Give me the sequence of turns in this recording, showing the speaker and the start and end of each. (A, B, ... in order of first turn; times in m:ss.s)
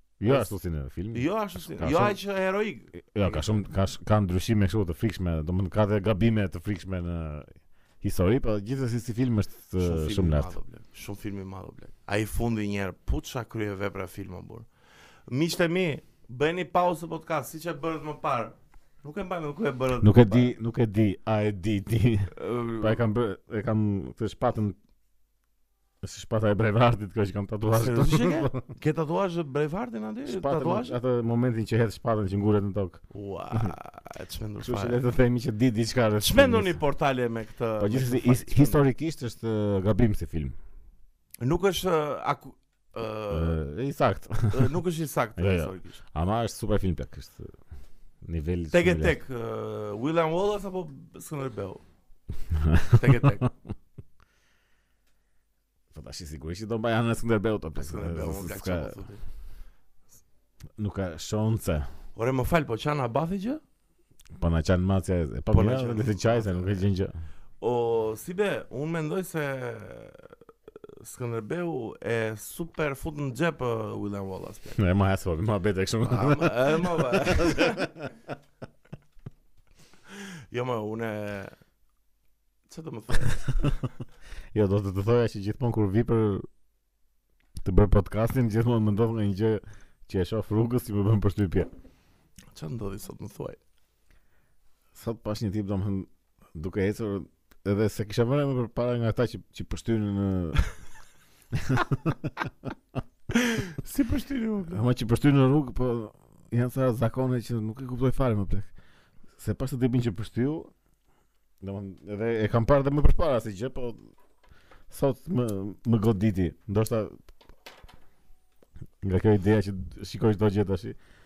0:00.2-0:02.2 A
0:00.2-0:00.5 B
0:01.1-0:03.6 B
0:03.0-0:10.5 A
0:09.8-0:14.7 B
0:15.3-0:20.5 B
0:20.0-0:24.8 A
0:22.3-0:23.0 B
0:26.0-0:28.6 A
0:27.7-0:31.0 B
0:30.3-0:33.7 A
0:33.1-0:35.0 B
0:34.6-0:36.8 A
0:36.2-0:38.8 B
0:37.8-0:40.6 A
0:41.4-0:43.6 B
0:43.3-0:44.7 A
0:44.5-0:46.0 B
0:45.4-0:47.5 A
0:48.2-0:49.2 A
0:48.7-0:51.8 B
0:52.5-0:53.5 A
0:52.9-0:53.5 B
0:55.9-0:59.0 A
0:57.8-0:59.2 B
1:00.8-1:01.9 A
1:02.2-1:03.6 B
1:04.4-1:07.1 A
1:05.5-1:06.9 B
1:07.6-1:10.3 B
1:11.0-1:14.8 B
1:14.8-1:18.1 A
1:16.0-1:17.9 B
1:20.5-1:21.6 B
1:22.7-1:23.8 B
1:24.5-1:26.5 A
1:27.6-1:31.7 A
1:32.5-1:33.6 B
1:35.0-1:40.6 A
1:41.5-1:42.7 A
1:43.3-1:44.8 B
1:44.7-1:48.7 A
1:49.4-1:50.7 A
1:51.6-1:54.0 A
1:54.9-1:57.2 A
1:59.0-2:01.0 A